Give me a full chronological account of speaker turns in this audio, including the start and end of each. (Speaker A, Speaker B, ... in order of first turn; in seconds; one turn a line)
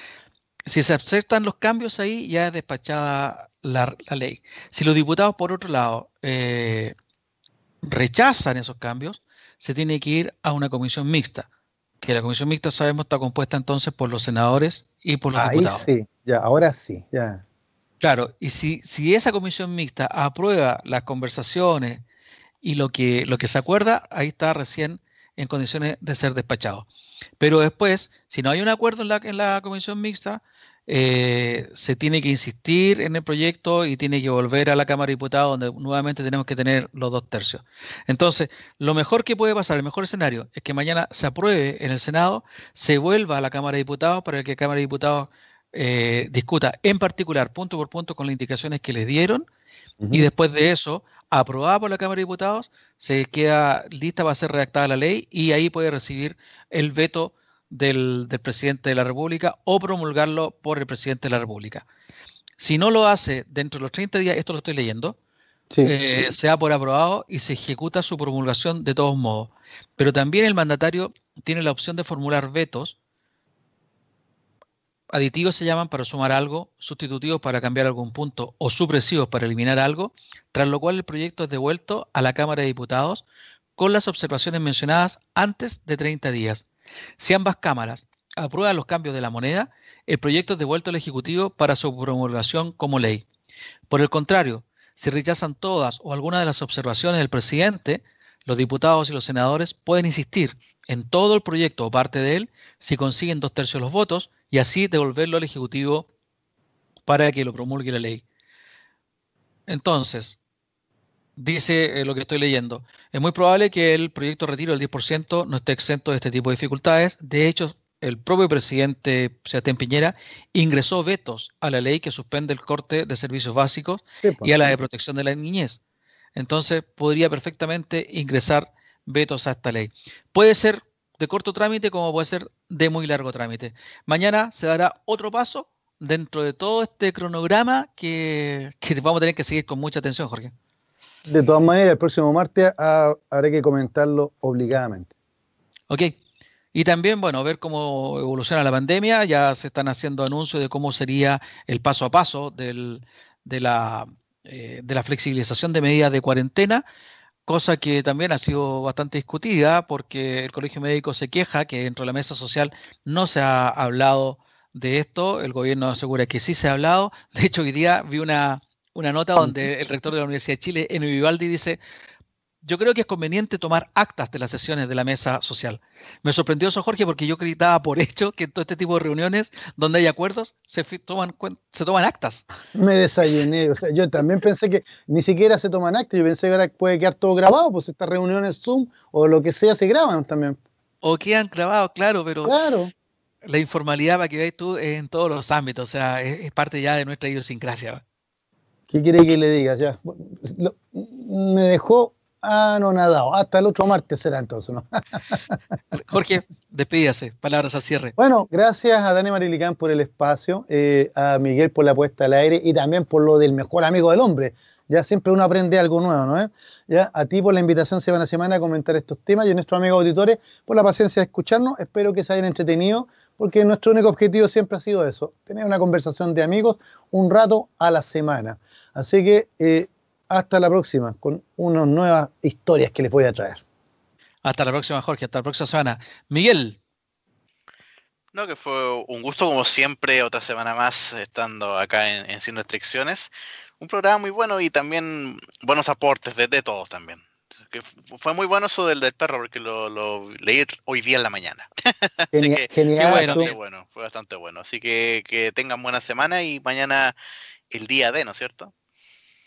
Speaker A: 0.7-6.9
Speaker A: 7.8-11.5
Speaker A: 12.0-15.9
Speaker B: 15.3-17.4
Speaker A: 18.0-22.0
Speaker A: 22.6-26.8
Speaker A: 27.4-49.5
Speaker B: 50.0-50.3
Speaker A: 50.1-61.8
Speaker A: 62.6-65.2
Speaker B: 65.7-65.9
Speaker A: 65.8-73.0
Speaker A: 75.1-83.2
Speaker A: 83.8-86.7
Speaker A: 87.2-93.2
Speaker A: 93.9-106.1
Speaker A: 107.1-108.2
Speaker A: 109.7-110.4
Speaker A: 111.4-125.8
Speaker B: 124.2-124.5
Speaker A: 126.3-140.5
Speaker B: 141.3-145.1
Speaker A: 145.9-146.2
Speaker A: 146.7-156.8
Speaker A: 157.4-171.8
Speaker B: 169.4-169.6
Speaker A: 172.6-182.4
Speaker B: 182.7-190.6
Speaker A: 191.0-192.6
Speaker B: 192.4-192.9
Speaker A: 193.4-198.0
Speaker B: 198.9-205.6
Speaker A: 205.9-208.2
Speaker B: 208.2-233.6
Speaker A: 234.4-236.8
Speaker C: 238.3-257.1
Speaker B: 252.3-253.5
Speaker A: 253.0-253.5
Speaker C: 257.7-258.7